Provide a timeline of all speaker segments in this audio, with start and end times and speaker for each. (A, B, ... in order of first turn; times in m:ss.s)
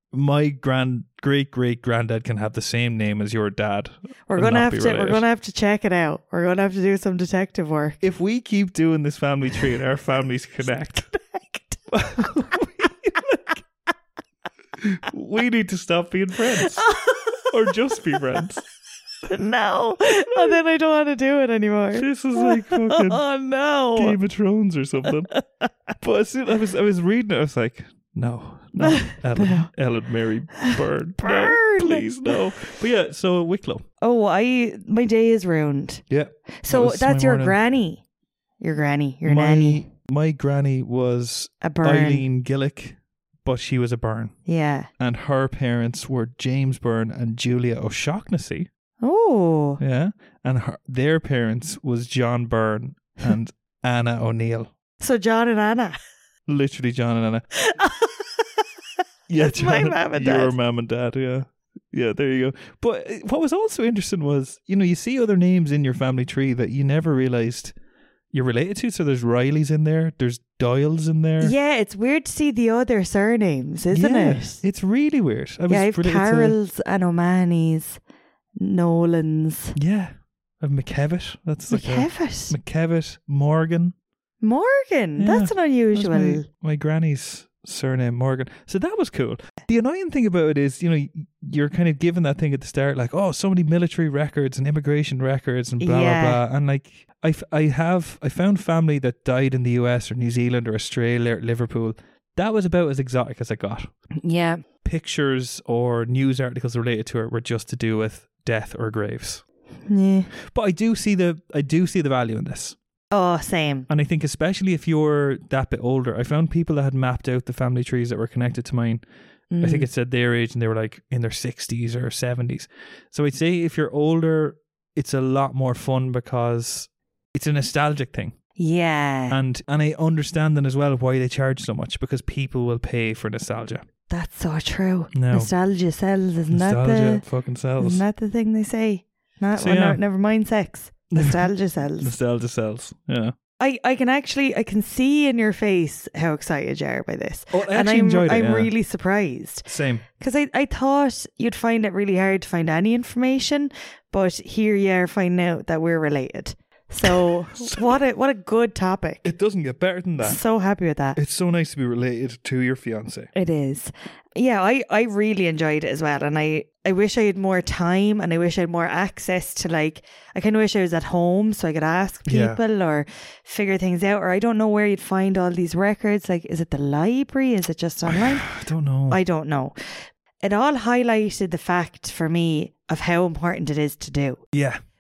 0:00.1-0:05.2 A
0:04.3-0:08.0 B
0:08.0-0:11.1 A
0:11.1-0:12.3 B
0:11.9-0:13.6 A
0:14.8-0:16.8 A
0:16.6-0:17.5 B
0:17.5-0:18.6 A
0:19.3-0:24.2 B
0:22.0-0:23.2 A
0:24.0-0:25.3 A
0:25.3-0:25.7 B
0:26.0-0:33.8 A
0:28.8-0:29.7 B
0:30.6-0:32.4 B
0:34.0-0:36.0 B
0:36.1-0:37.6 A
0:36.6-0:38.0 B
0:38.6-0:39.9 B
0:39.2-0:44.4 A
0:41.6-0:42.3 B
0:44.5-0:44.9 B
0:45.0-0:48.7 A
0:49.0-0:49.8 B
0:49.8-0:54.7 A
0:55.0-0:56.0 B
0:56.5-0:57.4 A
0:57.6-0:58.4 B
0:59.3-1:07.7 A
0:59.4-1:00.6 B
1:08.3-1:11.5 A
1:11.4-1:14.6 B
1:13.9-1:16.6 A
1:15.7-1:18.0 B
1:18.6-1:19.8 B
1:19.8-1:24.0 A
1:21.7-1:22.6 B
1:24.4-1:26.4 B
1:25.2-1:43.9 A
1:35.8-1:36.4 B
1:44.2-1:44.6 B
1:44.8-1:49.4 A
1:49.9-1:50.3 B
1:50.4-1:52.8 A
1:53.1-1:53.9 B
1:53.9-1:59.0 A
1:59.5-1:59.9 B
1:59.6-2:08.4 A
2:08.6-2:09.4 B
2:09.3-2:13.8 A
2:14.1-2:17.2 B
2:15.1-2:15.5 A
2:16.5-2:18.0 A
2:17.8-2:22.2 B
2:19.6-2:20.0 A
2:21.1-2:23.4 A
2:23.6-2:39.3 B
2:27.5-2:28.7 A
2:29.7-2:30.0 A
2:37.0-2:37.9 A
2:39.2-2:40.4 A
2:40.2-2:41.2 B
2:41.2-2:43.3 A
2:43.4-2:58.5 B
2:52.3-2:52.6 A
2:58.1-2:59.2 A
2:59.1-3:04.4 B
3:04.5-3:04.8 A